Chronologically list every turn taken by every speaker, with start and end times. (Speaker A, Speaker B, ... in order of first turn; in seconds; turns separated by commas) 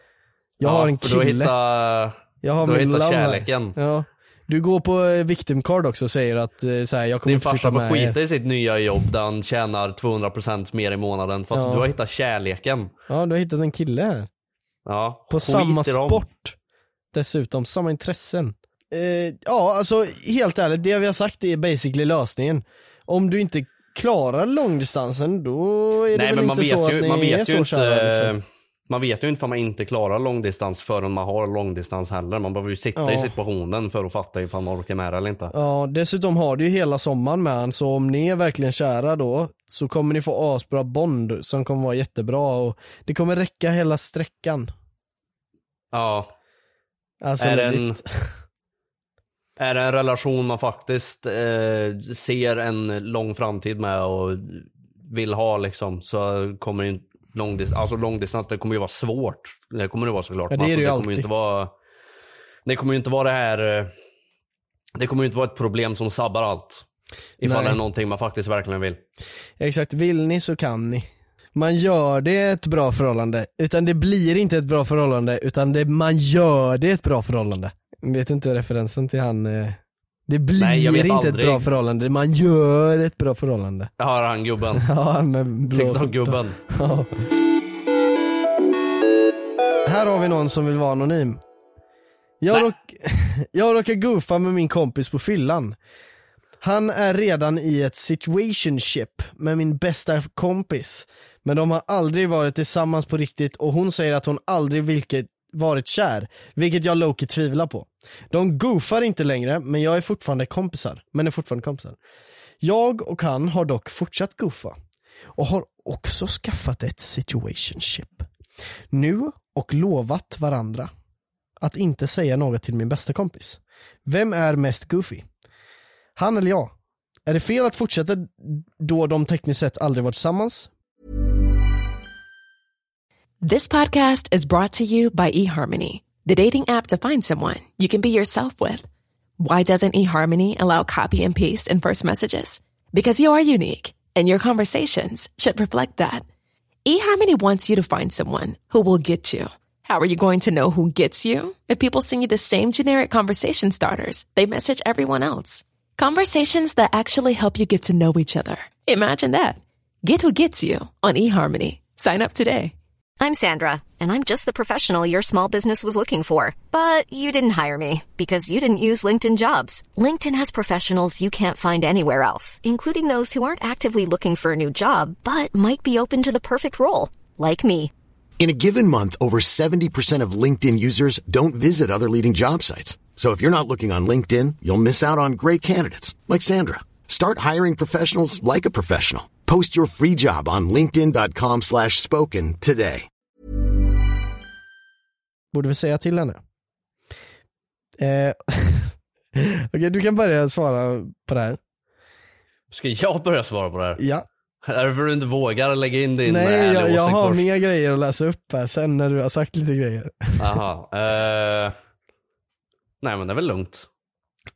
Speaker A: 0.6-1.5, Speaker B: 0.6-3.8, Speaker A: 2.4-8.2, Speaker B: 7.2-12.9, Speaker A: 11.5-11.9, Speaker A: 13.1-14.3, Speaker B: 14.8-16.2, Speaker A: 15.3-16.5, Speaker A: 17.1-28.3, Speaker B: 26.1-35.5, Speaker A: 33.0-33.3, Speaker A: 35.5-44.7, Speaker B: 45.9-46.3, Speaker A: 47.2-48.0, Speaker B: 47.4-48.0, Speaker B: 49.6-61.7, Speaker A: 60.5-61.3, Speaker B: 62.6-63.9, Speaker B: 65.0-66.8, Speaker B: 67.4-69.0, Speaker A: 67.4-67.8, Speaker A: 69.6-83.9, Speaker B: 80.6-81.7, Speaker B: 84.0-84.8, Speaker A: 84.8-87.1, Speaker B: 85.7-86.6, Speaker A: 89.8-91.4, Speaker A: 92.4-95.8, Speaker A: 96.6-112.0, Speaker A: 112.6-114.8, Speaker A: 115.3-118.3, Speaker A: 118.9-120.9, Speaker A: 121.6-125.2, Speaker A: 126.2-126.7, Speaker A: 127.3-130.7, Speaker C: 133.4-138.8, Speaker C: 139.4-146.2, Speaker C: 146.8-162.7, Speaker D: 163.2-177.9, Speaker E: 178.4-193.1, Speaker A: 195.5-196.4, Speaker A: 198.0-201.6, Speaker B: 202.7-204.0, Speaker A: 204.0-204.2, Speaker B: 204.6-207.5, Speaker A: 206.2-210.4, Speaker B: 210.4-211.7, Speaker B: 213.0-213.9